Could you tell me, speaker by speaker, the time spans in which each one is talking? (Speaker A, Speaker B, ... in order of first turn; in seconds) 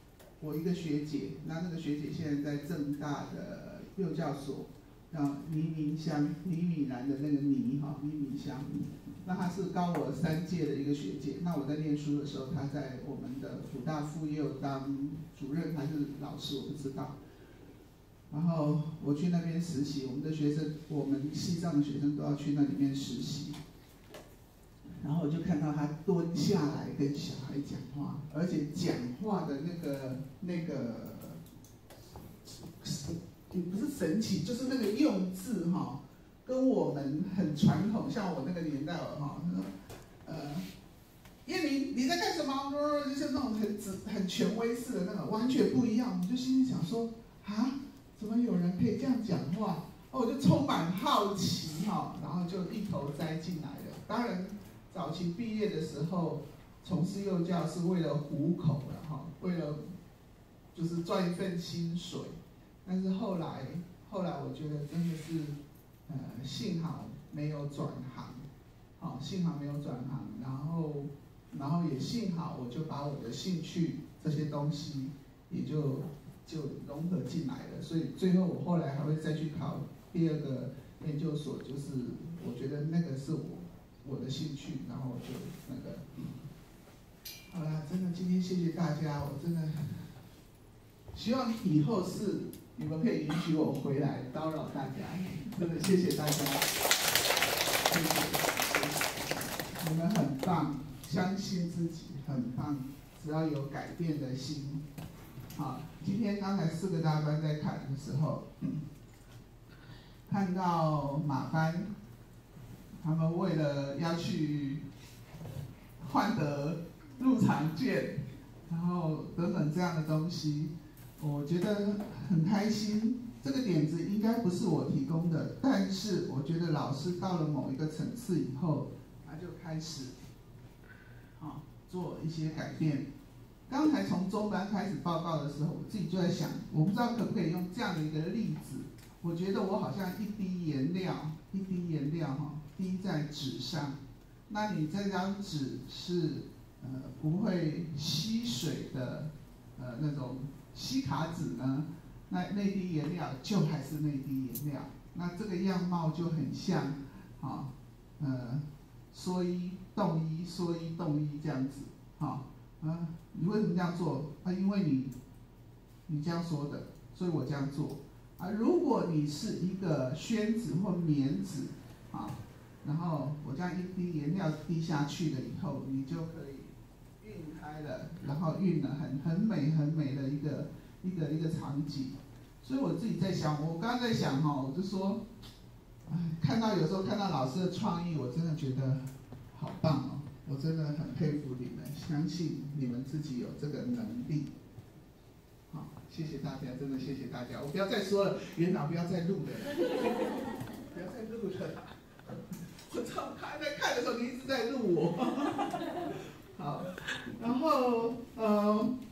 Speaker A: 0.4-17.2, 18.3-23.6, 25.0-31.4, 32.7-39.7, 40.2-40.7, 41.5-59.8, 60.7-68.5, 69.0-86.0, 87.5-90.1, 91.1-96.7, 97.9-104.9, 105.5-108.8, 110.3-111.9, 113.0-114.8, 116.0-130.2, 131.4-133.1, 133.7-144.0, 144.5-165.1, 166.1-185.2, 186.1-194.5, 195.7-201.9, 202.8-209.0